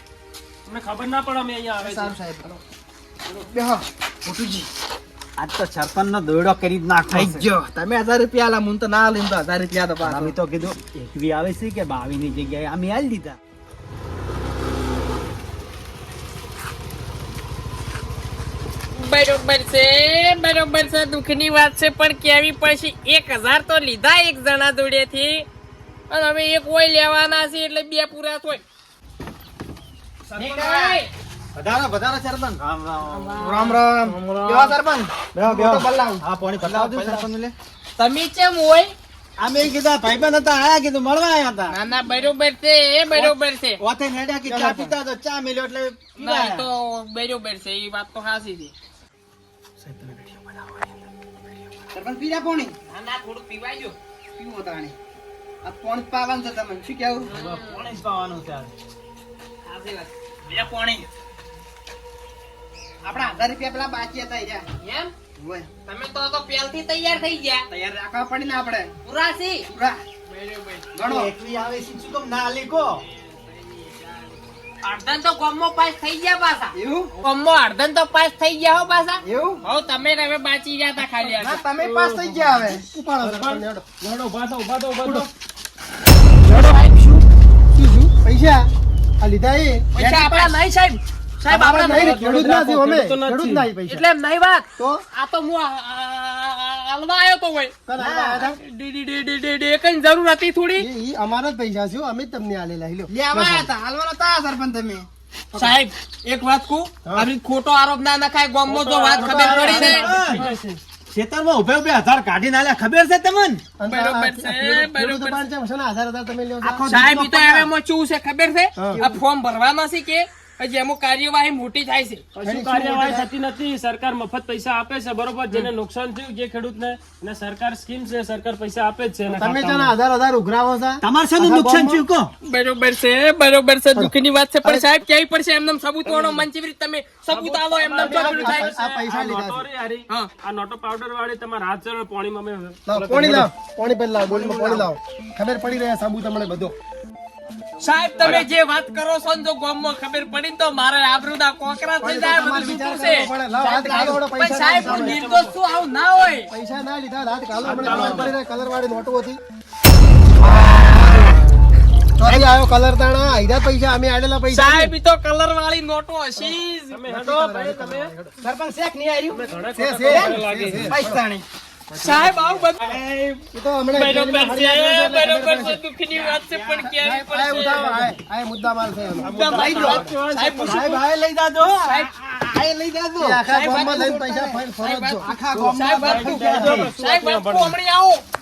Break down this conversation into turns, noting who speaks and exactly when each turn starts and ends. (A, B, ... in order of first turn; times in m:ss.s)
0:00.7-0:02.2 A
0:01.8-0:02.6 B
0:03.3-0:04.7 B
0:05.4-0:07.5 C
0:07.1-0:10.4 B
0:10.0-0:13.4 C
0:18.9-0:25.5 D
0:26.1-0:28.6 D
0:30.3-0:31.0 B
0:30.4-0:31.1 D
0:31.6-0:33.3 C
0:33.1-0:34.8 D
0:33.4-0:37.2 B
0:35.4-0:37.5 C
0:38.0-0:38.9 D
0:39.4-0:41.8 C
0:41.7-0:43.8 D
0:43.1-0:46.7 C
0:44.5-0:45.0 B
0:46.2-0:48.7 D
0:49.8-0:50.9 C
0:51.9-0:52.7 B
0:52.9-0:54.0 D
0:54.4-0:55.0 B
0:55.6-0:57.3 B
0:57.3-0:57.9 D
0:57.3-0:58.7 C
0:59.6-1:00.1 D
1:00.5-1:01.1 B
1:03.0-1:04.6 B
1:04.8-1:05.1 D
1:05.4-1:05.7 B
1:05.9-1:07.6 D
1:07.7-1:08.9 B
1:09.0-1:09.7 D
1:09.7-1:10.0 B
1:10.3-1:10.9 D
1:10.9-1:11.3 B
1:11.0-1:13.0 C
1:13.2-1:14.2 D
1:14.8-1:21.6 D
1:16.8-1:17.1 B
1:19.2-1:19.6 B
1:21.2-1:22.9 B
1:21.8-1:22.5 A
1:22.5-1:23.8 E
1:23.2-1:25.3 A
1:25.0-1:25.3 E
1:26.5-1:27.2 D
1:27.8-1:28.7 E
1:29.2-1:30.0 E
1:30.0-1:32.3 D
1:30.0-1:30.6 B
1:31.5-1:34.0 E
1:31.7-1:33.7 A
1:33.9-1:37.7 D
1:34.8-1:35.0 E
1:37.9-1:38.6 E
1:38.0-1:38.5 B
1:38.4-1:40.9 D
1:40.8-1:43.7 E
1:43.1-1:45.1 B
1:45.5-1:50.1 D
1:48.7-1:50.8 A
1:49.2-1:50.4 E
1:49.2-1:50.5 C
1:51.1-1:53.6 C
1:53.8-1:57.1 E
1:53.9-1:55.4 D
1:56.6-1:57.5 C
1:56.9-2:02.2 D
1:58.8-1:59.1 E
2:02.4-2:10.0 A
2:02.4-2:03.3 E
2:09.3-2:12.0 E
2:11.0-2:12.3 C
2:12.4-2:18.7 D
2:16.1-2:16.5 A
2:17.3-2:23.5 A
2:18.0-2:19.7 E
2:22.9-2:26.8 E
2:24.3-2:24.8 C
2:27.8-2:36.5 D
2:28.2-2:28.5 A
2:32.0-2:35.3 E
2:34.7-2:35.5 A
2:36.5-2:39.4 E
2:37.6-2:38.4 A
2:37.8-2:38.3 C
2:40.4-2:41.3 E
2:40.7-2:41.3 B
2:42.2-2:44.9 E
2:42.2-2:42.5 B
2:44.5-2:47.0 D
2:46.9-2:48.2 A
2:47.1-2:48.4 E
2:48.4-2:49.4 B
2:49.3-2:51.0 A
2:49.7-2:51.2 E
2:50.0-2:51.4 B
2:51.9-2:52.7 A
2:52.0-2:52.9 D
2:52.8-2:53.5 C
2:53.5-2:55.8 E
2:53.9-2:58.0 D
2:56.1-2:56.9 C
2:56.8-2:59.4 E
2:59.2-3:00.9 A
2:59.2-3:01.0 D
2:59.5-3:03.4 C
2:59.6-3:00.0 B
3:01.9-3:02.1 D
3:03.2-3:05.4 E
3:03.4-3:08.2 D
3:05.2-3:05.9 B
3:05.5-3:06.9 C
3:05.6-3:07.8 A